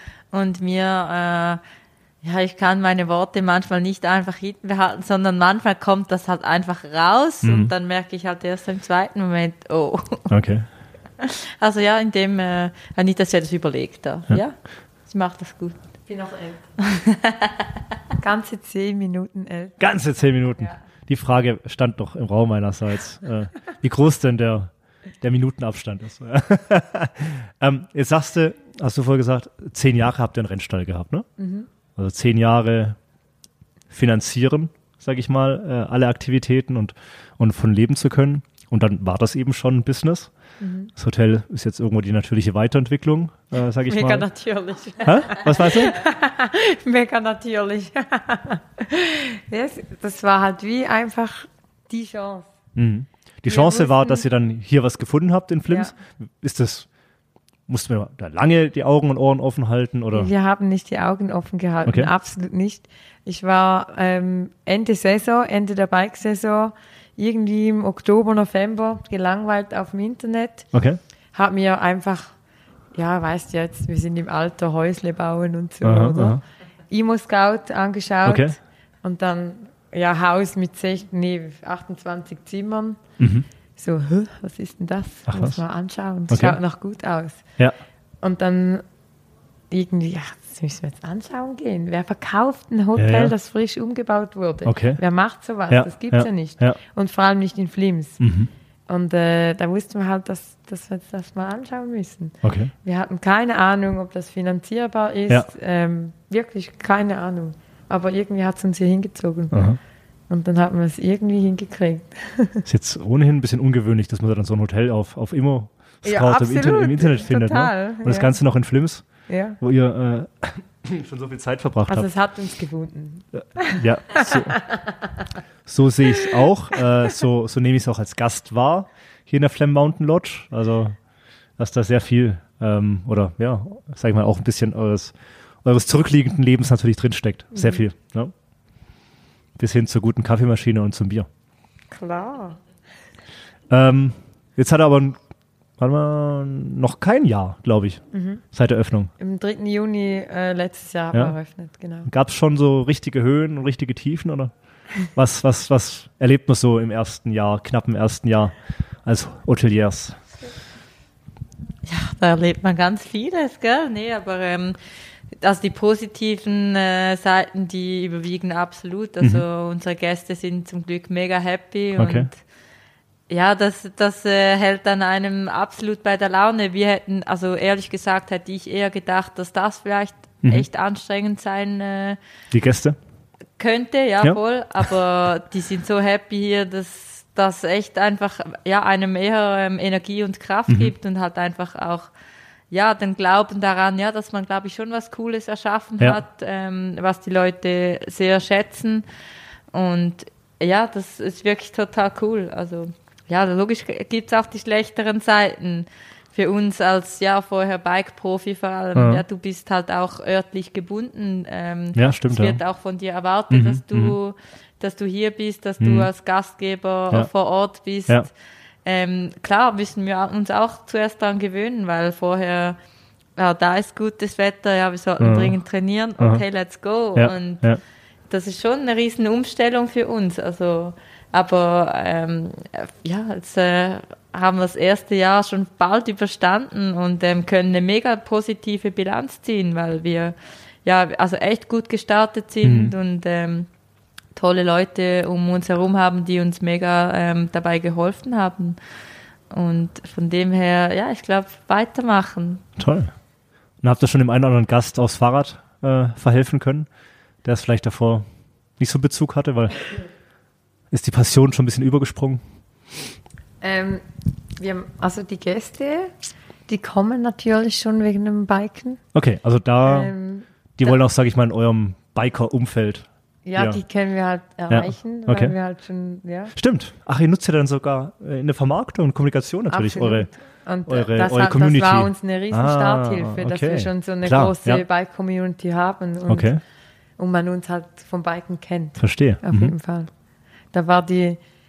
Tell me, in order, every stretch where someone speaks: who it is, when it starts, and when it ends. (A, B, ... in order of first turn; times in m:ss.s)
0:00.3-0:01.6 A
0:02.2-0:10.3 A
0:07.4-0:07.7 B
0:10.3-0:10.6 B
0:11.2-0:15.8 A
0:16.0-0:16.7 C
0:16.9-0:17.5 A
0:18.2-0:19.8 C
0:19.8-0:31.3 B
0:31.4-0:31.7 C
0:32.0-0:33.0 B
0:33.9-0:40.3 B
0:40.6-0:40.9 C
0:40.9-0:44.3 B
0:43.8-0:52.5 C
0:45.0-0:46.0 B
0:52.7-0:56.9 B
0:53.5-0:54.2 C
0:55.7-0:55.9 C
0:57.7-1:00.3 B
1:00.1-1:10.7 C
1:01.8-1:02.1 B
1:10.7-1:11.0 B
1:11.3-1:12.3 C
1:12.9-1:23.0 C
1:15.8-1:16.4 B
1:18.2-1:18.6 B
1:23.2-1:23.5 B
1:23.8-1:27.4 C
1:25.3-1:25.6 B
1:26.3-1:26.6 B
1:28.2-1:28.8 C
1:29.7-1:38.2 C
1:33.0-1:33.3 B
1:34.6-1:35.0 B
1:35.7-1:36.8 B
1:38.2-1:38.5 B
1:38.9-1:49.8 C
1:42.4-1:42.7 B
1:49.5-1:49.8 B
1:50.3-1:52.6 C
1:52.6-2:02.1 B
1:56.0-1:58.3 C
1:59.3-1:59.6 C
2:01.9-2:05.2 C
2:03.4-2:04.6 B
2:05.6-2:11.0 B
2:11.6-2:18.3 B
2:17.5-2:17.8 C
2:19.6-2:21.3 B
2:21.9-2:22.6 C
2:23.7-2:25.2 B
2:25.8-2:29.1 B
2:28.1-2:28.4 C
2:29.2-2:32.1 C
2:32.0-2:40.2 B
2:41.8-2:44.8 A
2:45.4-2:52.4 A
2:52.0-2:52.3 B
2:53.3-3:02.2 A
3:02.5-3:03.0 B
3:03.6-3:12.1 A
3:10.7-3:10.9 B
3:12.7-3:19.0 A
3:19.7-3:38.3 A
3:28.9-3:29.2 B
3:31.9-3:32.6 B
3:33.5-3:34.2 B
3:35.8-3:36.1 B
3:38.8-3:42.8 A
3:43.4-3:47.8 A
3:45.2-3:45.5 B
3:47.1-3:47.8 B
3:48.3-4:03.7 A
4:02.6-4:02.9 B
4:04.3-4:08.8 A
4:09.5-4:12.6 A
4:12.8-4:13.1 B
4:13.8-4:16.9 B
4:17.4-4:18.2 B
4:18.8-4:19.9 B
4:20.9-4:22.4 B
4:23.6-4:24.0 C
4:24.6-4:26.1 C
4:26.7-4:29.0 C
4:29.1-4:30.1 B
4:29.8-4:30.5 C
4:30.8-4:33.8 B
4:33.4-4:36.5 C
4:34.7-4:35.5 B
4:36.5-4:40.3 B
4:39.7-4:46.5 C
4:40.8-4:44.8 B
4:46.3-4:46.6 B
4:47.2-4:50.1 C
4:49.0-4:49.7 B
4:50.7-4:51.4 C